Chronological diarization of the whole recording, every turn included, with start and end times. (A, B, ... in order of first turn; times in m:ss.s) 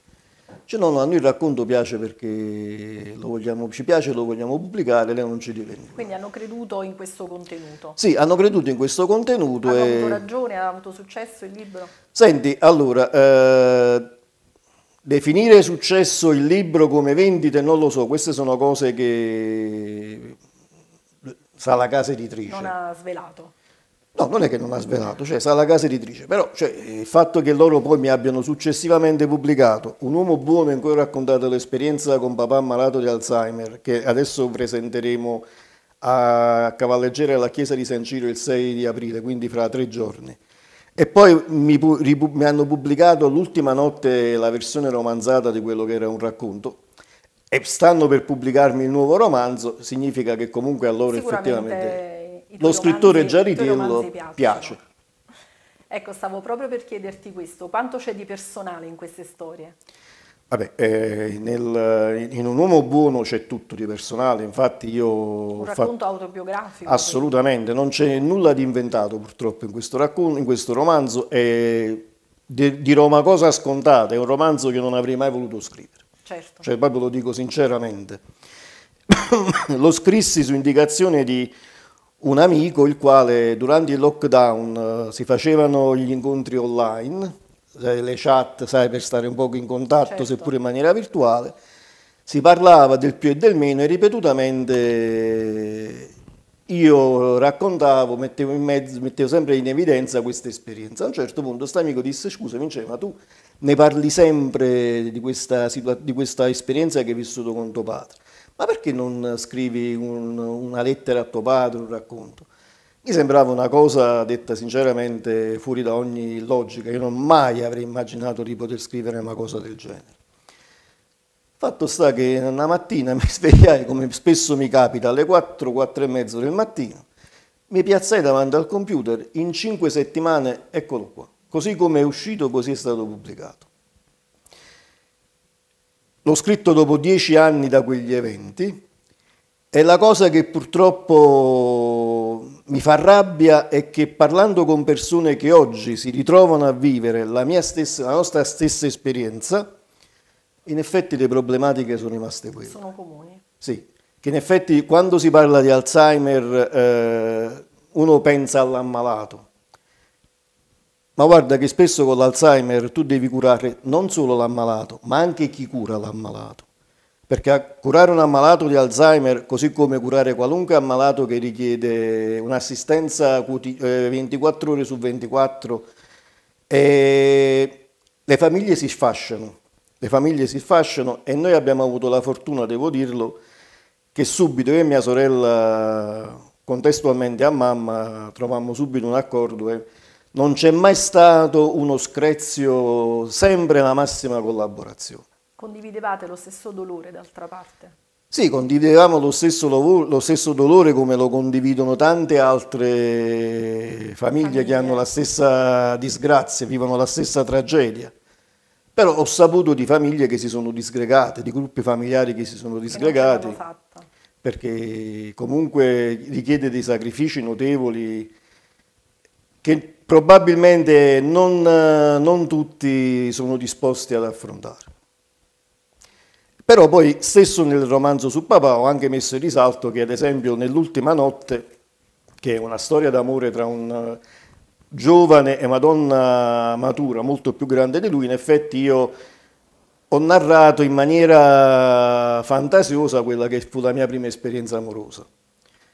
0:00.7-0:06.1 A
0:05.9-0:08.0 B
0:08.0-0:10.2 A
0:09.6-0:11.9 B
0:12.1-0:14.1 A
0:15.0-0:20.4 A
0:21.6-0:22.7 A
0:22.5-0:23.5 B
0:24.1-0:35.4 A
0:36.0-0:40.4 A
0:41.0-0:46.8 A
0:47.5-0:52.0 A
0:51.1-0:54.8 B
0:52.6-0:54.8 A
0:55.9-0:59.7 B
1:00.5-1:05.9 A
1:05.6-1:07.2 B
1:06.8-1:16.0 A
1:16.2-1:16.6 B
1:16.6-1:18.2 A
1:19.1-1:21.5 A
1:22.2-1:31.5 A
1:30.1-1:30.5 B
1:32.2-1:36.1 A
1:36.7-1:52.5 A
1:53.0-2:00.1 A
2:01.6-2:07.0 A
2:07.7-2:13.6 A
2:16.2-2:18.8 A
2:19.7-2:29.7 A
2:30.6-2:32.8 A
2:32.6-2:33.4 B
2:33.6-2:39.4 A
2:41.2-2:46.6 A
2:47.3-2:55.8 A
2:56.7-3:03.4 A
3:04.1-3:15.2 A
3:15.6-3:17.9 B
3:18.3-3:28.1 A
3:24.4-3:25.1 B
3:29.0-3:33.6 A
3:32.9-3:34.1 B
3:34.4-3:38.3 A
3:39.6-3:44.9 A
3:46.6-3:51.6 A
3:52.4-3:54.2 A
3:54.9-3:59.1 A
4:00.1-4:05.2 A